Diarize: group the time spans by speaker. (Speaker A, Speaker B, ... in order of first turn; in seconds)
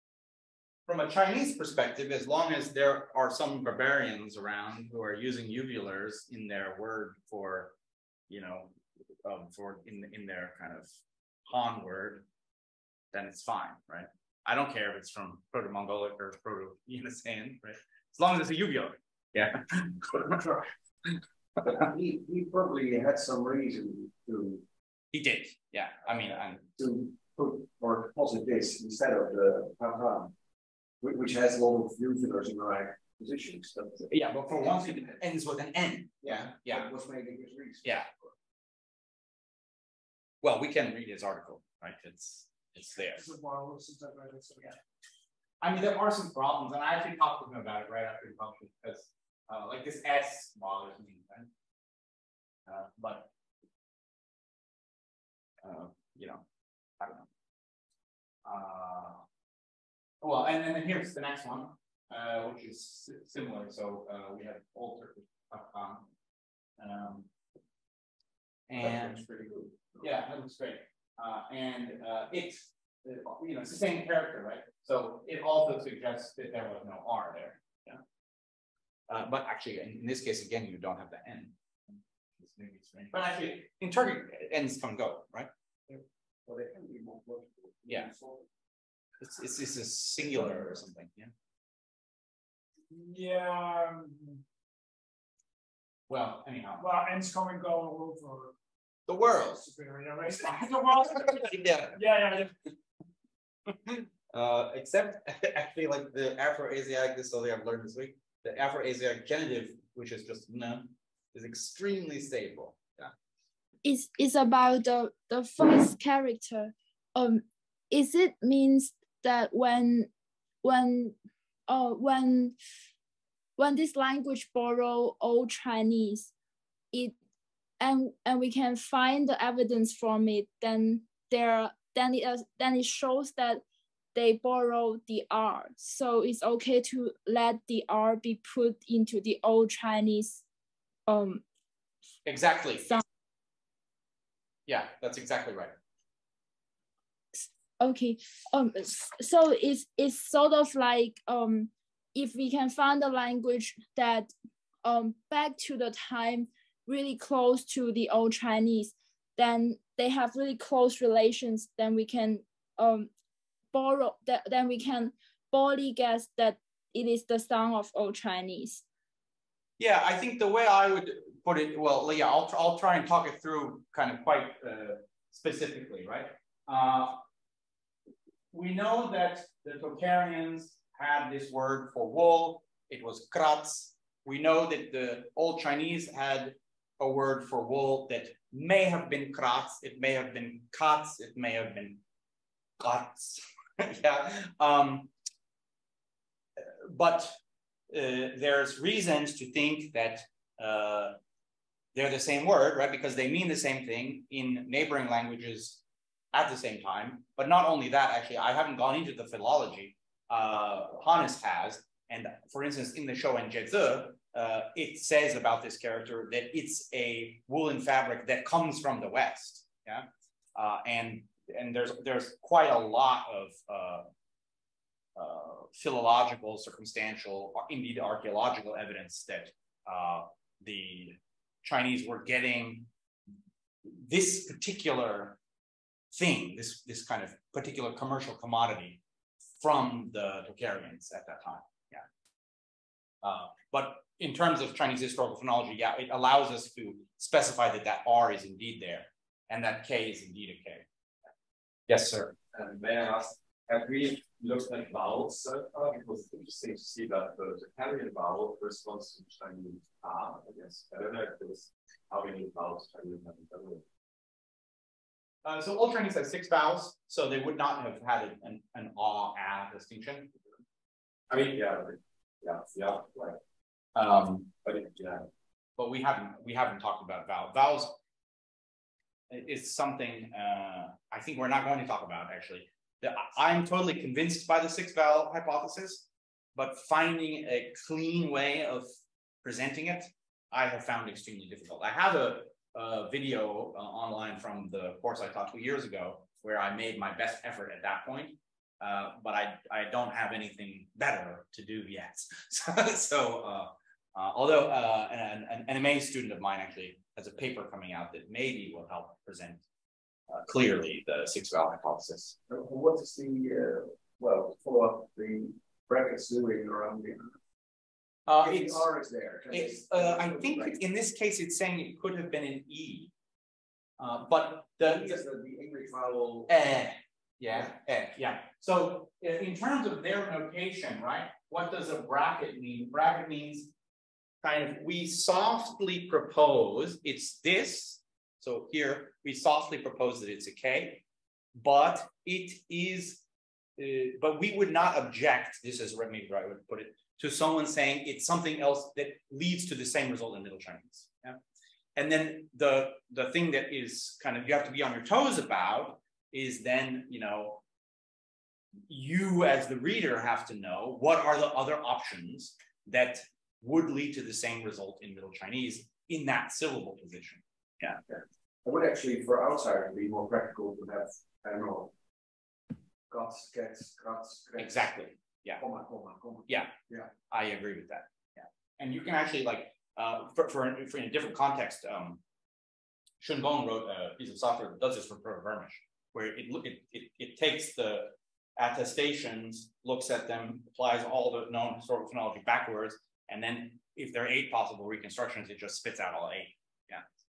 Speaker A: 0.9-7.7, 8.3-8.7, 9.2-10.9, 11.4-12.2, 13.1-20.7, 25.1-26.6, 34.1-36.9, 40.4-43.2, 45.6-51.5, 52.7-53.3, 55.6-56.4, 57.0-57.3, 58.4-59.2, 60.2-66.1, 66.8-67.3, 68.7-69.2, 70.0-78.0, 79.1-85.5, 89.2-91.3, 96.1-96.8, 99.1-99.6, 101.0-102.0, 103.9-113.1, 142.2-142.9, 144.7-145.7, 169.8-177.2, 178.5-192.0, 192.8-195.1, 196.6-197.3, 197.9-201.2, 201.9-205.8, 206.3-224.1, 225.2-232.9, 233.8-235.4, 236.1-239.0, 239.6-242.0, 243.2-250.8, 251.9-252.3, 265.4-270.3, 273.9-274.5, 275.8-277.9, 279.3-288.9, 289.4-309.6, 310.3-312.4, 318.3-318.9, 319.5-323.1, 324.0-325.2, 326.5-333.7, 334.4-341.0, 341.6-343.2, 343.8-351.4, 351.9-357.6, 358.9-368.0, 374.6-375.6, 376.5-376.7, 377.3-382.2, 383.2-397.0
Speaker B: 21.6-24.6, 26.8-30.3, 31.0-34.1, 34.6-35.2, 36.2-38.3, 68.7-70.1, 85.9-88.5, 312.5-317.4, 318.4-320.8, 324.8-326.5, 368.1-371.9, 373.1-374.9, 375.6-377.1
Speaker C: 43.1-44.8, 92.9-94.4, 96.8-98.5, 99.5-102.5
Speaker D: 113.8-120.1, 120.6-121.1, 121.7-122.6, 123.6-126.3, 127.8-133.6, 134.1-140.4, 141.1-141.4, 147.3-154.3, 154.8-163.1, 163.7-168.8
Speaker E: 252.5-263.8, 271.3-273.4, 274.6-275.2